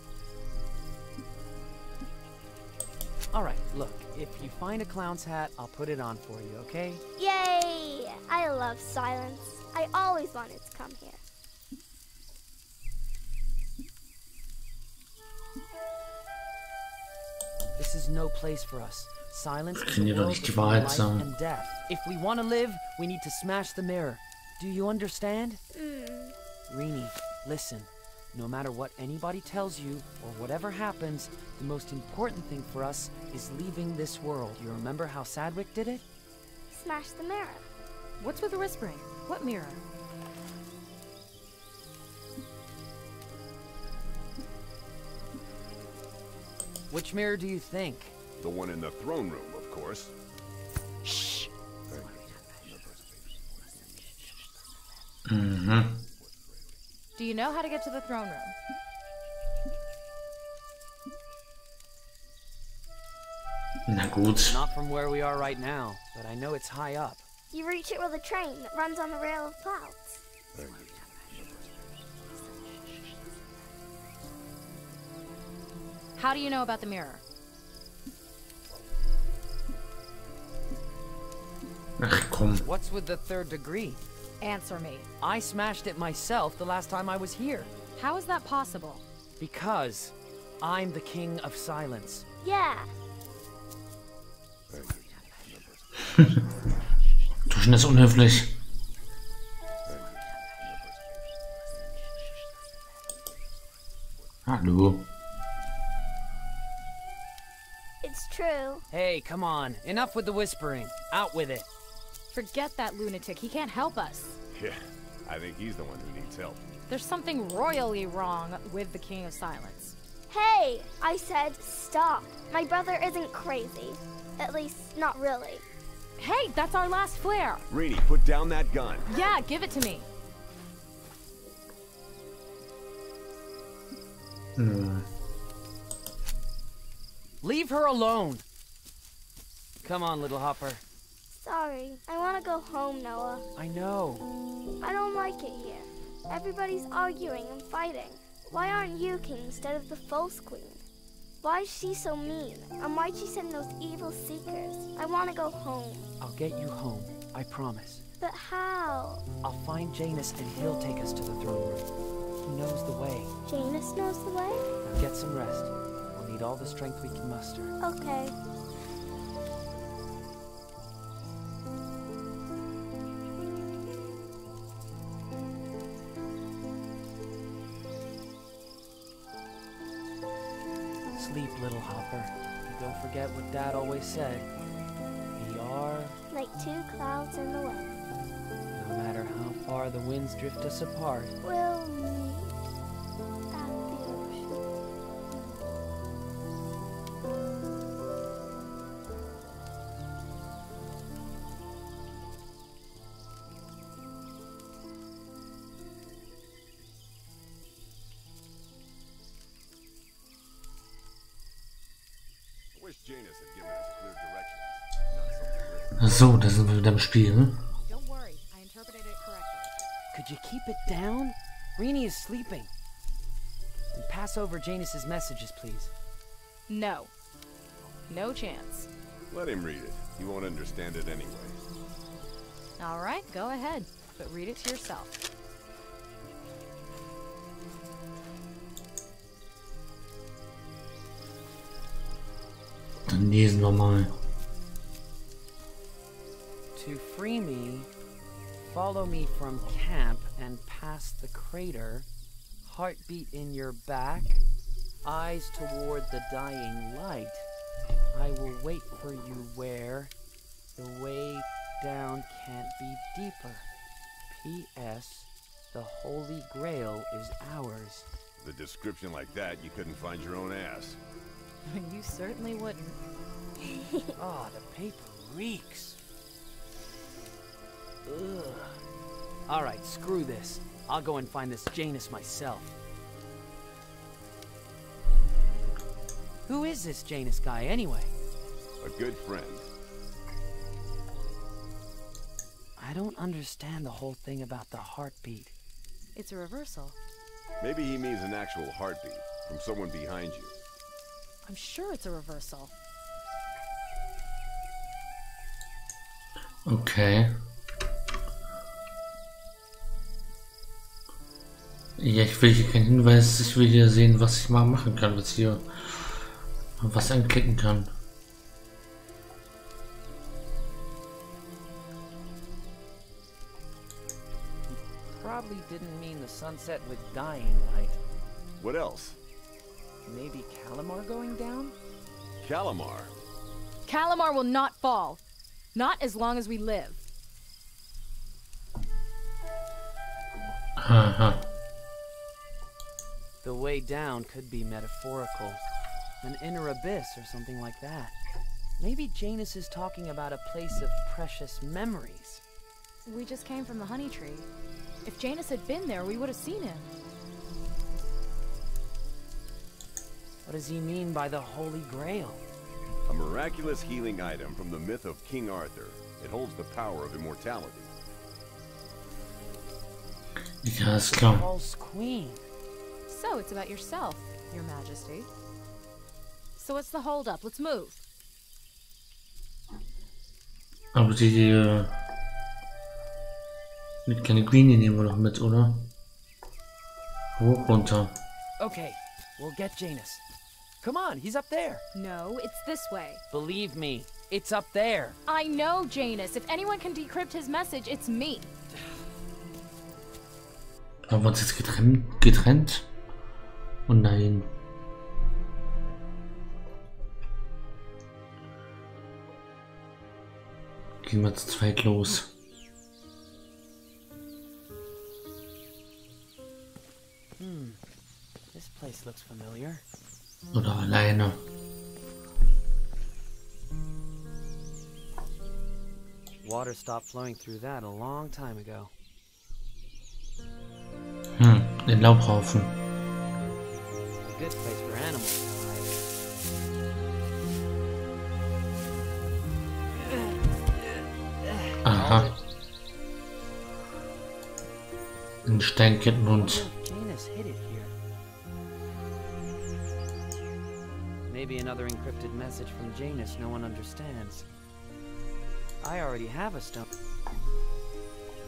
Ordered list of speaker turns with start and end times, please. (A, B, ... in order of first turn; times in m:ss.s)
0:03.3-0:07.0 A
0:07.2-0:11.2 B
0:17.8-0:25.6 A
0:19.8-0:21.3 C
0:25.7-0:26.4 B
0:26.7-0:36.0 A
0:36.7-0:37.6 B
0:38.2-0:39.8 D
0:46.9-0:48.1 A
0:48.4-0:50.1 E
0:51.9-0:54.4 E
0:55.2-0:56.0 C
0:56.2-0:56.8 E
0:57.2-0:58.6 D
1:03.9-1:04.6 C
1:04.4-1:07.2 A
1:07.5-1:10.2 B
1:10.6-1:11.7 E
1:16.2-1:17.2 D
1:22.0-1:22.6 C
1:22.6-1:24.0 A
1:24.4-1:25.1 D
1:25.2-1:27.7 A
1:28.0-1:29.0 D
1:29.4-1:32.2 A
1:32.4-1:32.9 B
1:34.7-1:36.4 E
1:37.5-1:38.5 C
1:39.9-1:41.9 E
1:44.5-1:45.0 C
1:48.0-1:48.9 B
1:48.9-1:51.7 A
1:52.3-1:54.4 D
1:54.5-1:56.6 E
1:56.9-2:00.0 D
2:00.3-2:05.6 B
2:06.2-2:07.6 D
2:07.7-2:09.1 E
2:09.1-2:10.1 D
2:14.6-2:15.0 C
2:17.4-2:18.4 A
2:19.8-2:20.8 A
2:21.3-2:23.5 B
2:23.6-2:24.2 A
2:24.8-2:30.8 B
2:31.4-2:36.1 B
2:36.2-2:38.0 A
2:38.2-2:39.2 B
2:39.4-2:41.9 A
2:42.4-2:43.3 A
2:43.5-2:44.7 B
2:44.8-2:47.7 A
2:47.8-2:48.4 B
3:01.1-3:04.5 A
3:05.4-3:06.2 A
3:06.3-3:07.9 B
3:08.7-3:11.4 A
3:11.4-3:12.5 B
3:13.5-3:14.6 B
3:32.8-3:36.2 E
3:36.0-3:37.6 C
3:37.9-3:39.8 D
3:40.1-3:42.7 A
3:43.9-3:45.9 A
3:46.7-3:47.1 D
3:48.1-3:48.9 D
3:49.3-3:51.6 E
3:52.8-3:55.1 D
4:03.1-4:04.1 C
4:06.8-4:07.9 A
4:08.6-4:12.1 A
4:12.6-4:14.4 A
4:15.0-4:17.5 A
4:18.1-4:20.1 A
4:20.7-4:23.6 A
4:24.3-4:28.0 A
4:28.4-4:31.0 E
4:31.6-4:33.0 D
4:33.6-4:34.1 B
4:34.2-4:36.0 A
4:38.0-4:38.8 A
4:39.5-4:42.8 A
4:46.5-4:48.1 A
4:48.8-4:49.7 E
4:52.8-4:55.5 A
4:56.1-4:57.0 D
4:57.6-5:00.5 E
5:01.4-5:02.7 D
5:06.6-5:07.4 C
5:12.0-5:16.2 C
5:16.8-5:17.9 C
5:24.7-5:28.0 A
5:28.6-5:29.2 E
5:30.0-5:31.8 A
5:32.4-5:33.1 E
5:33.9-5:35.2 D
5:35.7-5:37.0 D
5:40.8-5:41.4 C
5:43.4-5:45.6 A
5:46.2-5:48.2 A
5:48.8-5:52.4 A
5:53.0-5:54.5 D
5:55.0-5:56.9 D
6:00.4-6:02.4 A
6:03.1-6:07.9 E
6:10.6-6:11.5 C
6:11.0-6:12.4 A
6:13.1-6:15.3 D
6:16.6-6:18.0 D
6:20.9-6:21.9 C
6:24.0-6:25.9 C
6:27.4-6:28.2 C
6:28.6-6:30.2 A
6:30.8-6:31.8 A
6:32.0-6:33.2 D
6:33.3-6:35.2 A
6:35.3-6:38.5 D
6:41.1-6:42.9 C
6:43.9-6:44.5 C
6:51.0-6:52.3 C
6:57.4-6:57.8 A
6:58.5-6:59.8 A
7:00.5-7:01.4 C
7:06.4-7:08.9 A
7:11.4-7:12.8 C
7:14.2-7:16.0 A
7:21.4-7:22.4 A
7:21.8-7:22.3 C
7:25.4-7:26.6 C
7:26.3-7:28.0 A
7:31.3-7:34.5 A
7:35.8-7:36.9 A